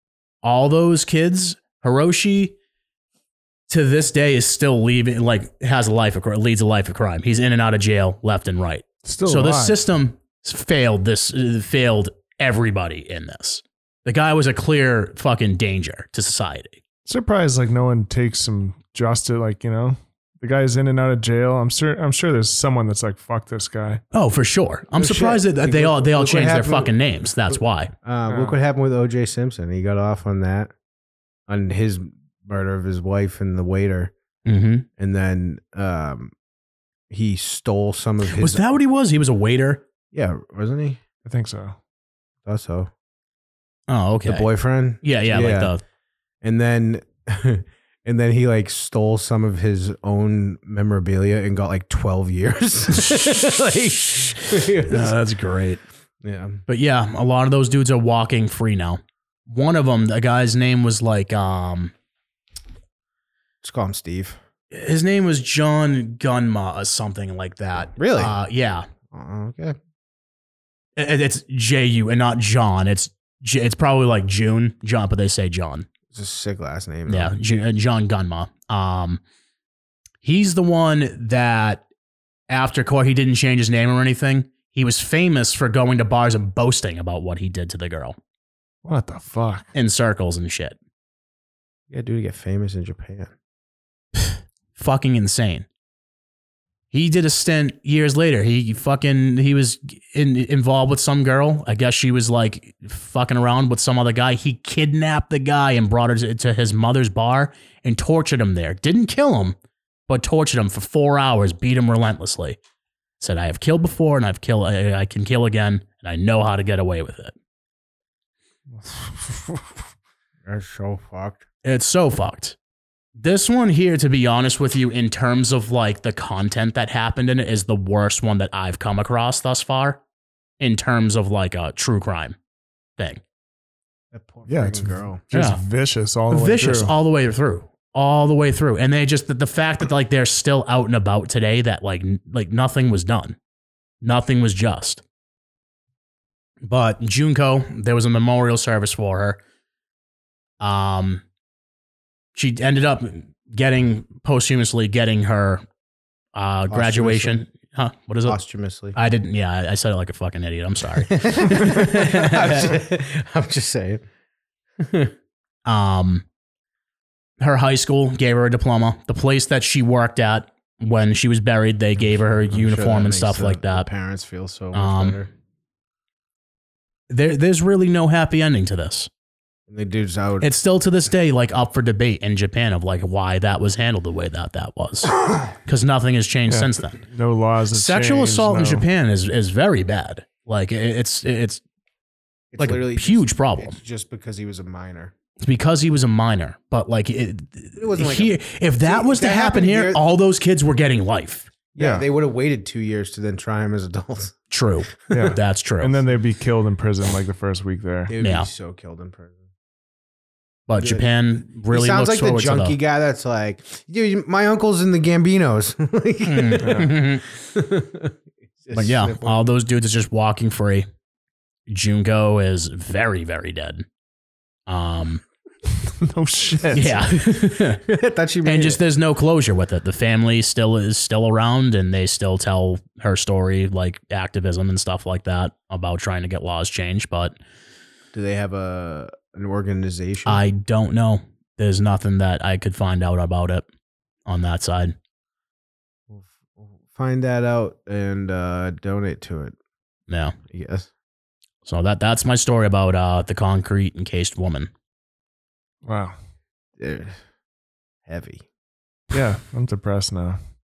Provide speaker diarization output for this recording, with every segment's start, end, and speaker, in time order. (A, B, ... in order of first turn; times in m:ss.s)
0:00.4-0:02.6 A
0:03.7-0:16.8 A
0:09.0-0:09.8 B
0:17.1-0:24.0 B
0:24.1-0:27.9 A
0:25.0-0:26.9 C
0:27.5-0:30.7 C
0:28.3-0:28.6 B
0:31.5-0:34.1 C
0:34.5-0:34.9 A
0:35.0-0:36.3 C
0:37.1-0:38.6 C
0:38.3-0:39.8 A
0:40.1-0:41.0 C
0:41.2-0:41.8 B
0:42.5-0:42.9 C
0:43.9-0:44.5 A
0:44.3-0:45.7 C
0:45.0-0:45.8 A
0:46.4-0:55.2 C
0:54.7-0:55.8 A
0:56.2-0:56.6 C
0:56.7-1:01.9 A
1:03.6-1:04.4 C
1:04.7-1:08.9 A
1:07.8-1:08.4 C
1:09.1-1:09.8 C
1:11.0-1:15.9 A
1:16.1-1:17.4 C
1:17.1-1:19.2 A
1:20.2-1:21.8 A
1:22.5-1:28.2 A
1:28.8-1:29.7 B
1:29.7-1:30.8 A
1:31.9-1:33.3 C
1:34.8-1:35.7 A
1:36.9-1:49.6 A
1:50.1-1:52.6 A
1:53.2-1:57.4 A
1:58.8-1:59.6 B
2:00.4-2:01.4 C
2:01.6-2:02.6 A
2:03.2-2:10.0 A
2:10.6-2:12.4 A
2:13.0-2:13.2 A
2:14.1-2:15.2 C
2:14.5-2:16.9 B
2:15.3-2:15.6 A
2:16.3-2:23.4 A
2:24.0-2:25.0 A
2:26.6-2:29.4 A
2:30.6-2:31.2 A
2:32.4-2:35.6 A
2:36.4-2:38.4 A
2:36.7-2:37.5 C
2:38.3-2:39.0 C
2:38.9-2:42.8 A
2:41.1-2:44.0 C
2:44.8-2:45.1 C
2:45.7-2:46.3 A
2:47.4-2:53.9 A
2:52.5-2:55.3 C
2:54.7-2:55.2 A
2:57.1-2:59.1 A
2:59.7-3:00.5 C
3:00.4-3:07.0 A
3:06.5-3:08.8 B
3:07.7-3:11.6 A
3:12.5-3:15.1 C
3:12.6-3:13.8 A
3:15.4-3:21.5 A
3:17.8-3:20.0 C
3:21.8-3:24.4 C
3:21.8-3:22.0 B
3:24.5-3:26.0 A
3:25.1-3:28.1 B
3:28.1-3:29.4 C
3:28.2-3:28.5 A
3:30.7-3:32.8 A
3:30.8-3:31.1 C
3:31.6-3:39.4 C
3:36.2-3:37.3 A
3:36.6-3:36.9 B
3:38.7-3:40.9 A
3:41.7-3:43.8 A
3:44.7-3:45.2 A
3:46.0-3:47.0 B
3:46.7-3:47.8 A
3:46.8-3:48.8 C
3:48.4-3:57.4 A
3:58.1-4:00.4 C
4:00.3-4:03.7 A
4:04.3-4:05.0 A
4:06.1-4:09.6 C
4:10.1-4:10.4 A
4:10.5-4:10.9 C
4:11.6-4:14.7 A
4:15.8-4:16.2 B
4:16.8-4:17.2 C
4:18.1-4:18.5 C
4:19.1-4:20.4 B